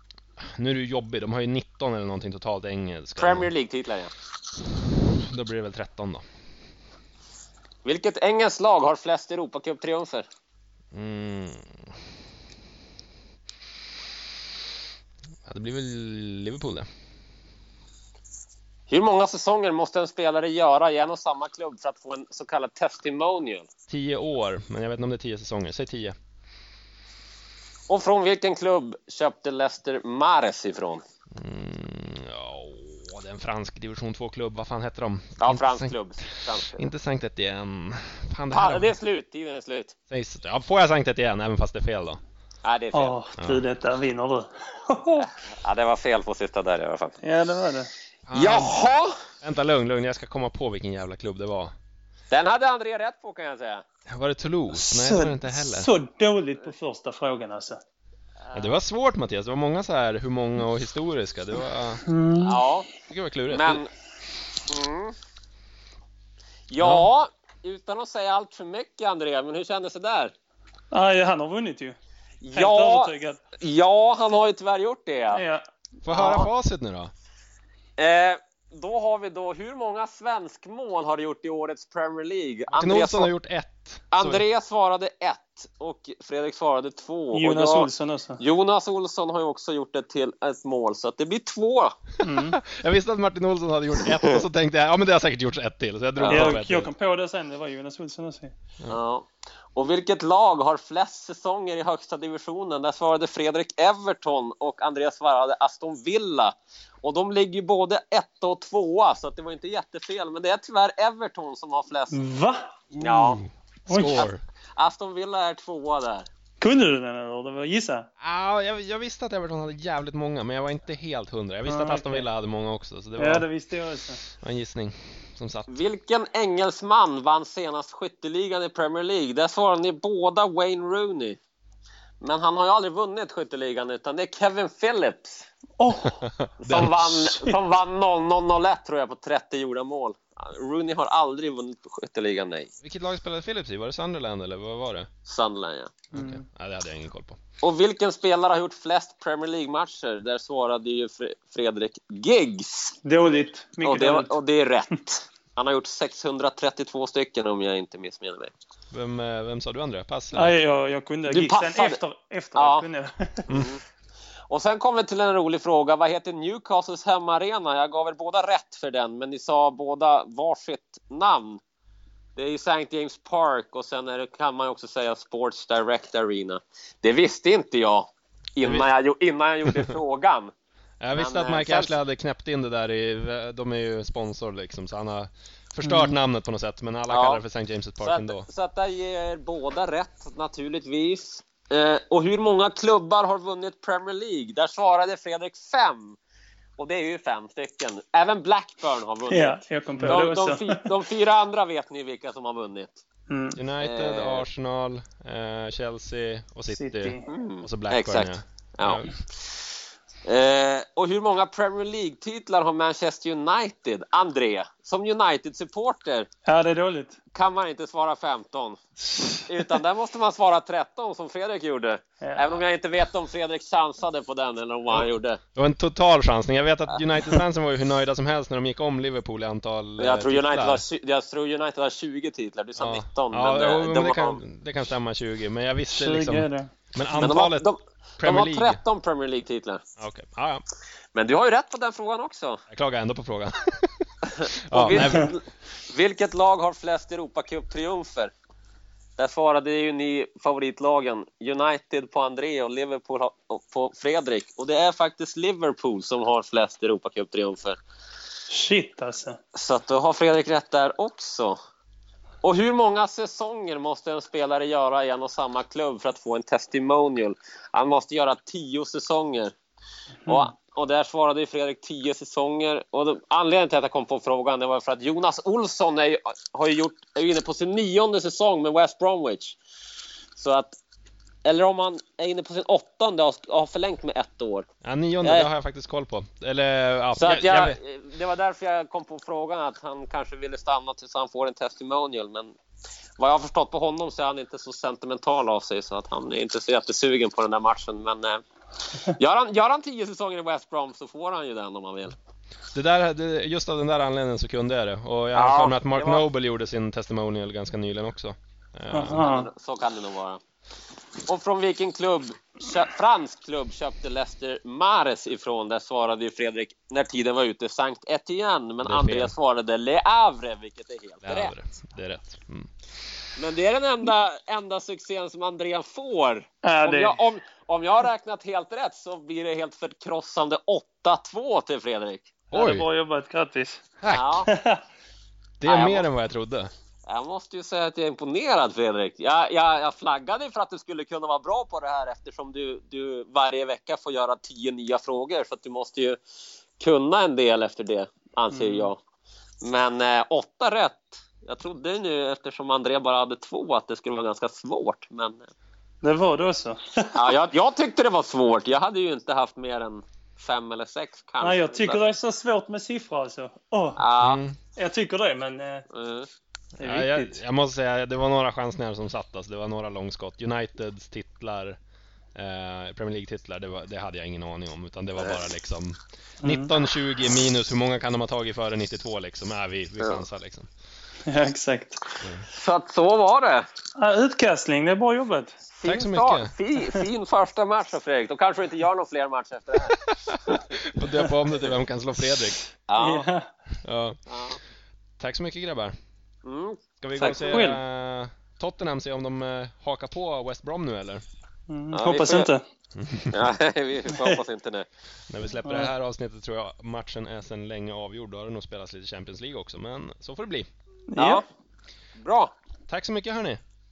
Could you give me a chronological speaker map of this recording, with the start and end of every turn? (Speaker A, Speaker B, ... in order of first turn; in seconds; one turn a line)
Speaker A: 0.6-3.5
Speaker B: 3.2-4.1
Speaker A: 5.0-6.2
Speaker B: 7.8-10.3
Speaker A: 10.9-11.8
Speaker A: 15.5-16.9
Speaker B: 18.9-23.7
Speaker A: 23.9-26.1
Speaker B: 27.9-31.0
Speaker A: 31.4-39.0
Speaker B: 35.4-36.9
Speaker B: 38.5-39.9
Speaker A: 40.1-42.2
Speaker B: 42.6-43.2
Speaker C: 42.9-45.3
Speaker A: 43.4-43.6
Speaker B: 45.2-47.1
Speaker C: 47.2-47.9
Speaker A: 48.3-48.8
Speaker B: 48.3-49.1
Speaker A: 49.4-51.7
Speaker B: 52.3-53.8
Speaker A: 54.1-55.9
Speaker C: 54.7-57.8
Speaker B: 58.5-58.8
Speaker A: 58.5-62.0
Speaker C: 62.0-62.6
Speaker B: 62.4-62.9
Speaker A: 63.1-63.8
Speaker B: 63.5-63.9
Speaker B: 64.7-65.2
Speaker B: 66.7-70.3
Speaker A: 66.8-67.1
Speaker C: 70.9-72.0
Speaker B: 72.4-75.4
Speaker C: 72.5-73.4
Speaker C: 75.3-75.6
Speaker A: 76.0-77.1
Speaker B: 76.1-76.5
Speaker B: 78.0-83.3
Speaker A: 82.7-84.4
Speaker B: 84.1-92.0
Speaker C: 87.3-88.4
Speaker C: 92.2-92.6
Speaker A: 92.2-96.9
Speaker B: 96.2-96.6
Speaker C: 96.3-98.5
Speaker B: 98.9-112.2
Speaker C: 112.1-112.7
Speaker A: 112.9-114.4
Speaker B: 113.0-113.4
Speaker C: 113.9-114.3
Speaker B: 114.1-116.3
Speaker C: 116.6-118.1
Speaker A: 118.2-123.5
Speaker C: 121.7-122.3
Speaker C: 123.2-124.2
Speaker A: 124.4-125.7
Speaker B: 125.7-131.4
Speaker B: 132.2-135.5
Speaker C: 135.8-136.2
Speaker A: 136.2-137.2
Speaker B: 136.6-142.7
Speaker C: 137.2-137.6
Speaker A: 142.8-145.1
Speaker B: 145.3-145.9
Speaker C: 146.1-146.5
Speaker A: 146.1-147.4
Speaker B: 147.6-153.0
Speaker C: 153.0-154.3
Speaker B: 153.8-158.5
Speaker A: 158.9-160.6
Speaker C: 160.3-163.5
Speaker B: 161.3-162.0
Speaker B: 162.6-162.9
Speaker A: 163.5-163.8
Speaker B: 163.5-163.8
Speaker B: 164.5-171.6
Speaker B: 172.4-180.5
Speaker A: 178.6-178.9
Speaker A: 181.0-188.5
Speaker B: 181.1-182.0
Speaker C: 185.8-186.1
Speaker B: 187.1-187.4
Speaker B: 188.0-196.2
Speaker B: 196.8-203.0
Speaker C: 199.3-201.0
Speaker A: 200.0-200.2
Speaker C: 203.3-203.6
Speaker A: 203.6-209.1
Speaker B: 203.8-204.5
Speaker C: 206.7-207.3
Speaker B: 207.3-216.3
Speaker C: 216.5-217.2
Speaker B: 217.3-218.8
Speaker C: 219.1-219.5
Speaker B: 219.5-225.4
Speaker C: 222.2-222.6
Speaker A: 225.6-230.8
Speaker B: 226.9-227.4
Speaker B: 230.0-234.4
Speaker A: 232.8-237.7
Speaker C: 235.9-236.7
Speaker B: 237.2-239.8
Speaker A: 238.2-238.8
Speaker A: 240.0-240.6
Speaker B: 241.1-242.6
Speaker A: 242.7-243.9
Speaker B: 244.3-248.3
Speaker A: 244.7-245.3
Speaker C: 244.9-245.3
Speaker B: 249.2-257.8
Speaker C: 258.5-259.4
Speaker B: 259.6-261.6
Speaker B: 262.4-269.5
Speaker B: 270.3-279.6
Speaker B: 280.4-280.8
Speaker B: 281.4-284.7
Speaker A: 284.8-287.8
Speaker B: 285.2-285.5
Speaker B: 287.1-292.6
Speaker B: 293.2-298.4
Speaker B: 299.0-302.1
Speaker A: 302.7-309.2
Speaker B: 305.3-306.3
Speaker C: 308.9-309.5
Speaker B: 309.1-310.4
Speaker B: 311.2-321.5
Speaker A: 318.8-319.3
Speaker A: 321.2-322.7
Speaker B: 323.4-332.3
Speaker C: 326.6-327.2
Speaker A: 332.5-332.9
Speaker C: 332.5-333.9
Speaker A: 334.0-334.4
Speaker B: 334.1-334.5
Speaker C: 334.5-334.8
Speaker A: 335.6-336.7
Speaker B: 335.6-336.1
Speaker B: 337.1-346.2
Speaker B: 346.8-349.0
Speaker C: 348.5-348.9
Speaker B: 349.6-355.5
Speaker C: 356.0-357.3
Speaker B: 357.1-362.1
Speaker C: 361.4-364.1
Speaker B: 364.0-364.4
Speaker A: 364.2-364.6
Speaker C: 364.8-365.9
Speaker B: 365.9-366.3
Speaker C: 366.8-367.4
Speaker A: 366.8-371.8
Speaker A: 372.4-380.7
Speaker B: 375.2-375.4
Speaker C: 376.4-376.7
Speaker B: 380.0-380.3
Speaker C: 381.3-382.0
Speaker B: 382.5-383.6
Speaker C: 384.0-385.6
Speaker B: 385.7-390.6
Speaker A: 385.8-386.5
Speaker A: 389.9-392.6
Speaker B: 392.9-393.3
Speaker C: 393.0-393.5
Speaker A: 393.8-394.2
Speaker B: 394.3-394.6
Speaker A: 395.2-395.9
Speaker B: 396.4-397.6
Speaker A: 397.0-401.2
Speaker C: 397.2-397.8
Speaker C: 401.7-402.6
Speaker B: 401.9-402.5
Speaker A: 403.0-403.4
Speaker B: 403.3-404.9
Speaker C: 404.1-404.4
Speaker A: 405.3-410.7
Speaker C: 405.6-405.9
Speaker C: 411.1-411.4
Speaker B: 411.2-411.4
Speaker B: 412.2-412.5
Speaker A: 412.9-413.6